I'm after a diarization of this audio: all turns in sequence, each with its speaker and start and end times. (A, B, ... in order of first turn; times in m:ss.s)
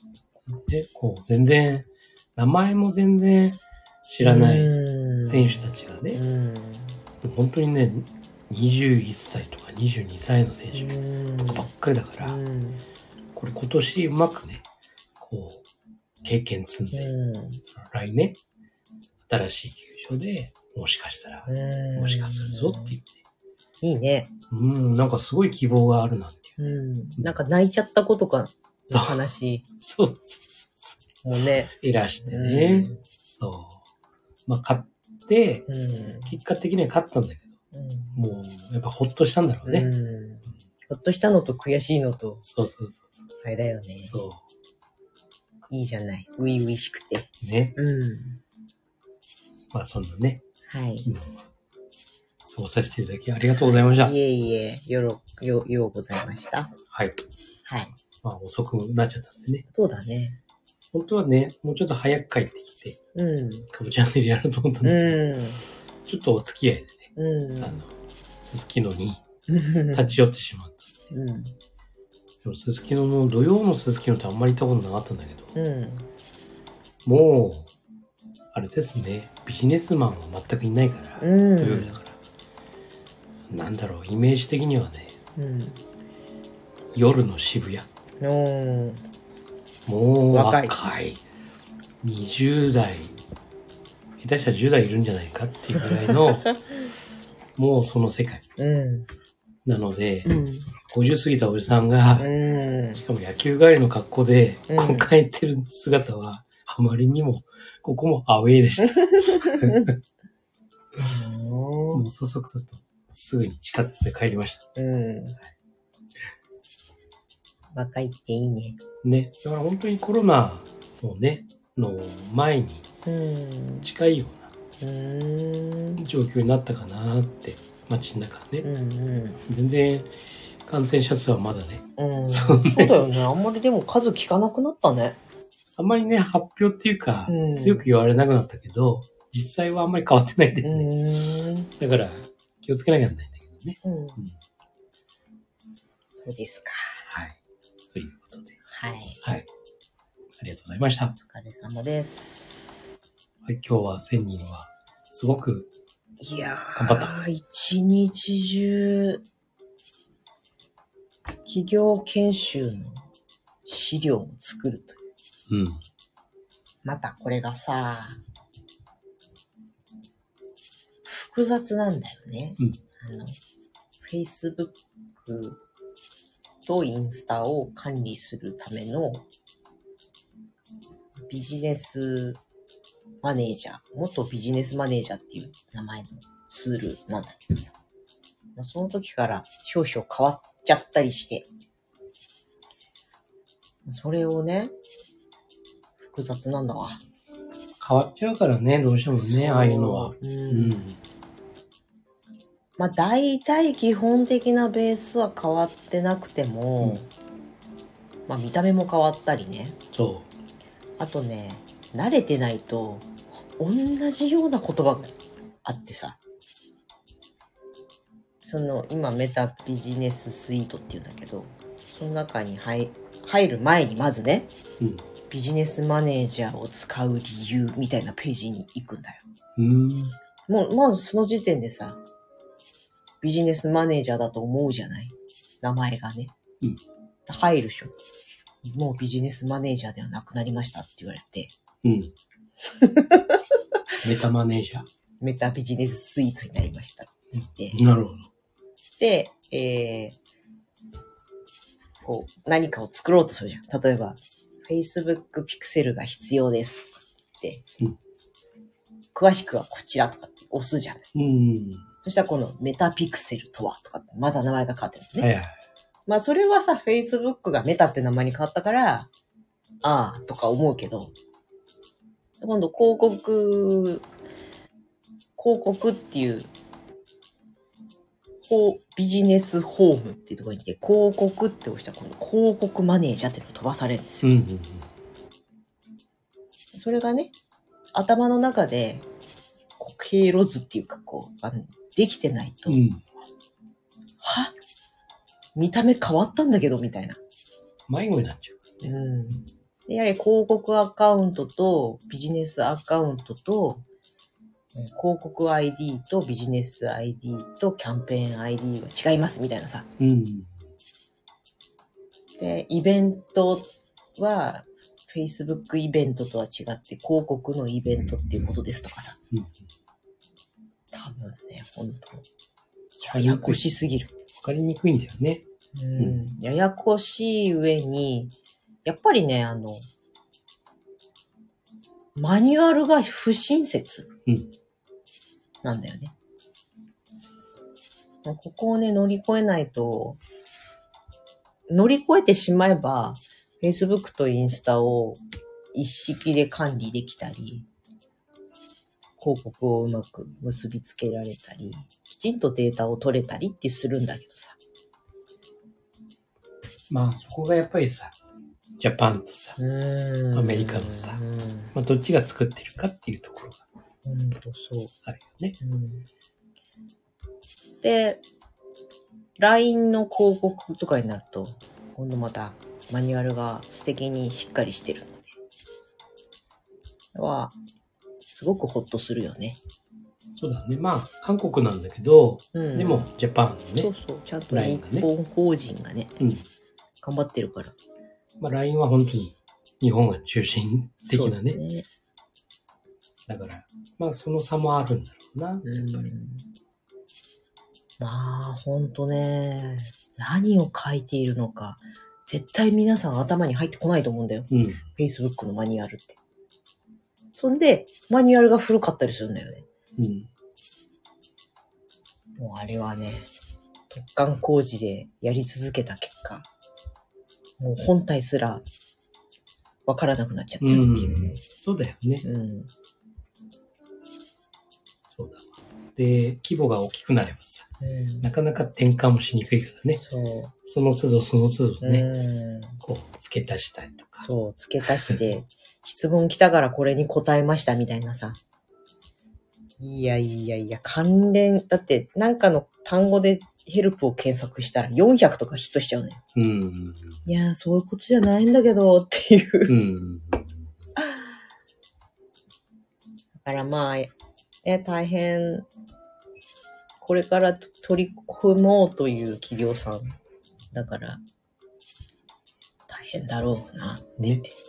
0:00.5-0:04.7 A
0:04.2-0:07.0 B
0:05.2-0:06.2 A
0:07.2-0:12.4 A
0:10.7-0:11.7 B
0:12.2-0:12.8 B
0:13.3-0:14.6 A
0:15.2-0:15.6 A
0:16.2-0:17.1 A
0:16.9-0:17.6 B
0:17.7-0:18.4 A
0:19.3-0:23.1 A
0:21.5-0:23.0 B
0:23.8-0:24.3 B
0:24.5-0:26.6 A
0:26.6-0:29.6 B
0:28.9-0:29.2 A
0:29.8-0:31.0 A
0:31.2-0:31.7 B
0:31.6-0:33.8 A
0:32.2-0:33.0 B
0:34.5-0:35.6 A
0:35.7-0:36.4 B
0:36.2-0:37.5 A
0:37.7-0:38.2 B
0:38.1-0:39.9 A
0:39.6-0:42.4 B
0:42.4-0:43.1 A
0:43.4-0:44.2 B
0:44.1-0:44.4 A
0:45.7-0:48.4 B
0:47.4-0:47.8 A
0:49.7-0:50.4 A
0:50.7-0:51.1 B
0:51.0-0:51.4 A
0:52.4-0:54.1 A
0:53.6-0:56.7 B
0:56.9-0:57.2 A
0:57.6-0:58.0 B
0:58.2-0:59.6 A
0:59.7-1:00.4 B
1:00.9-1:03.0 A
1:03.1-1:03.7 B
1:03.7-1:05.2 A
1:04.8-1:05.6 B
1:06.0-1:09.2 A
1:07.2-1:07.8 B
1:09.5-1:10.1 B
1:09.9-1:10.9 A
1:11.1-1:11.6 B
1:12.4-1:15.5 A
1:15.5-1:16.1 B
1:17.0-1:17.7 A
1:18.5-1:22.2 A
1:21.2-1:22.0 B
1:23.5-1:25.2 A
1:25.4-1:25.8 B
1:26.9-1:27.9 A
1:28.2-1:29.0 B
1:29.8-1:31.2 A
1:30.3-1:30.8 B
1:32.0-1:33.2 A
1:34.2-1:36.5 A
1:37.6-1:38.4 A
1:38.6-1:39.1 B
1:39.6-1:42.3 A
1:40.2-1:40.7 B
1:42.2-1:43.0 B
1:43.0-1:50.0 A
1:44.7-1:45.1 B
1:48.8-1:49.9 B
1:51.0-1:52.0 B
1:51.9-1:54.6 A
1:54.8-1:55.4 B
1:57.7-1:58.8 B
1:59.0-2:02.8 A
2:03.0-2:03.9 B
2:03.8-2:04.5 A
2:04.8-2:06.0 B
2:06.0-2:08.7 A
2:08.6-2:09.4 B
2:09.4-2:13.0 A
2:12.0-2:15.2 B
2:15.8-2:20.9 A
2:17.3-2:17.9 B
2:20.6-2:21.7 B
2:21.8-2:24.4 A
2:23.8-2:24.2 B
2:26.2-2:27.0 B
2:27.1-2:27.4 A
2:27.9-2:28.6 A
2:28.7-2:29.2 B
2:29.2-2:29.5 A
2:30.4-2:31.2 A
2:31.2-2:32.9 B
2:33.4-2:35.7 A
2:36.2-2:39.2 B
2:36.8-2:37.2 A
2:41.4-2:43.0 B
2:43.6-2:45.0 B
2:45.5-2:45.8 A
2:46.8-2:48.2 B
2:51.0-2:53.4 B
2:54.0-2:55.6 B
2:56.6-2:59.2 B
3:01.3-3:02.4 B
3:03.2-3:07.7 B
3:08.6-3:11.5 B
3:13.8-3:14.7 B
3:16.0-3:17.0 B
3:17.8-3:21.0 A
3:19.1-3:20.8 B
3:22.8-3:27.1 B
3:28.3-3:29.8 B
3:29.9-3:30.3 A
3:31.0-3:36.2 B
3:38.4-3:44.5 B
3:44.8-3:45.0 A
3:45.3-3:49.2 B
3:49.6-3:50.2 A
3:50.5-3:52.0 B
3:53.2-3:56.3 B
3:57.3-3:57.9 B
3:58.6-4:01.5 B
4:01.8-4:02.1 A
4:02.8-4:03.4 B
4:04.0-4:04.9 A
4:05.2-4:07.8 B
4:07.7-4:08.3 A
4:09.0-4:10.2 B
4:12.0-4:17.6 B
4:19.1-4:21.1 B
4:21.1-4:21.8 A
4:22.0-4:25.3 B
4:25.2-4:25.6 A
4:26.1-4:29.1 B
4:29.8-4:31.1 B
4:32.4-4:34.1 B
4:35.4-4:36.5 B
4:38.5-4:44.3 B
4:44.2-4:44.9 A
4:46.7-4:47.3 B
4:47.9-4:49.1 B
4:49.8-4:52.8 B
4:52.7-4:53.1 A
4:54.2-4:54.5 B
4:55.6-4:57.2 B
4:57.9-4:58.9 A
4:58.8-5:03.8 B
5:04.7-5:09.9 B
5:10.0-5:10.5 A
5:12.4-5:19.2 B
5:20.9-5:22.2 B
5:23.0-5:24.1 B
5:23.0-5:23.6 A
5:24.4-5:25.4 A
5:25.7-5:29.9 B
5:26.0-5:26.2 A
5:32.1-5:34.1 B
5:35.6-5:36.1 B
5:38.2-5:40.2 B
5:41.7-5:45.2 B
5:45.7-5:47.7 B
5:49.2-5:54.6 B
5:56.9-5:58.1 A
5:58.8-5:59.6 A
5:59.6-6:01.7 B
6:00.3-6:01.2 A
6:01.7-6:03.6 A
6:04.0-6:04.9 B
6:05.0-6:05.6 A
6:05.6-6:06.1 B
6:07.8-6:08.2 B
6:09.4-6:15.3 B
6:17.1-6:17.6 B
6:18.3-6:19.6 B
6:20.4-6:23.9 A
6:22.5-6:23.1 B
6:23.8-6:26.1 B
6:24.5-6:25.1 A
6:26.2-6:26.4 A
6:27.0-6:27.7 B
6:28.4-6:31.6 A
6:31.1-6:31.9 B
6:33.3-6:36.1 A
6:35.6-6:36.5 B
6:38.0-6:46.2 B
6:44.5-6:44.8 A
6:47.3-6:49.6 B
6:50.0-6:50.3 A
6:52.4-6:53.3 B
6:53.9-6:56.5 B
6:57.6-6:58.6 B
6:59.8-7:01.4 B
7:00.6-7:02.2 A
7:02.2-7:02.7 B
7:05.1-7:07.7 A
7:07.8-7:08.3 B
7:08.2-7:10.0 A
7:10.0-7:10.5 B
7:10.6-7:12.0 A
7:11.8-7:12.8 B
7:12.8-7:14.3 A
7:14.2-7:18.4 B
7:19.8-7:26.2 B
7:26.3-7:27.1 A
7:27.2-7:29.7 B
7:29.7-7:30.6 A
7:31.0-7:31.2 B
7:33.4-7:34.1 B
7:34.6-7:35.7 B
7:37.0-7:40.2 B
7:40.7-7:41.2 B
7:42.9-7:44.2 B
7:44.2-7:44.4 A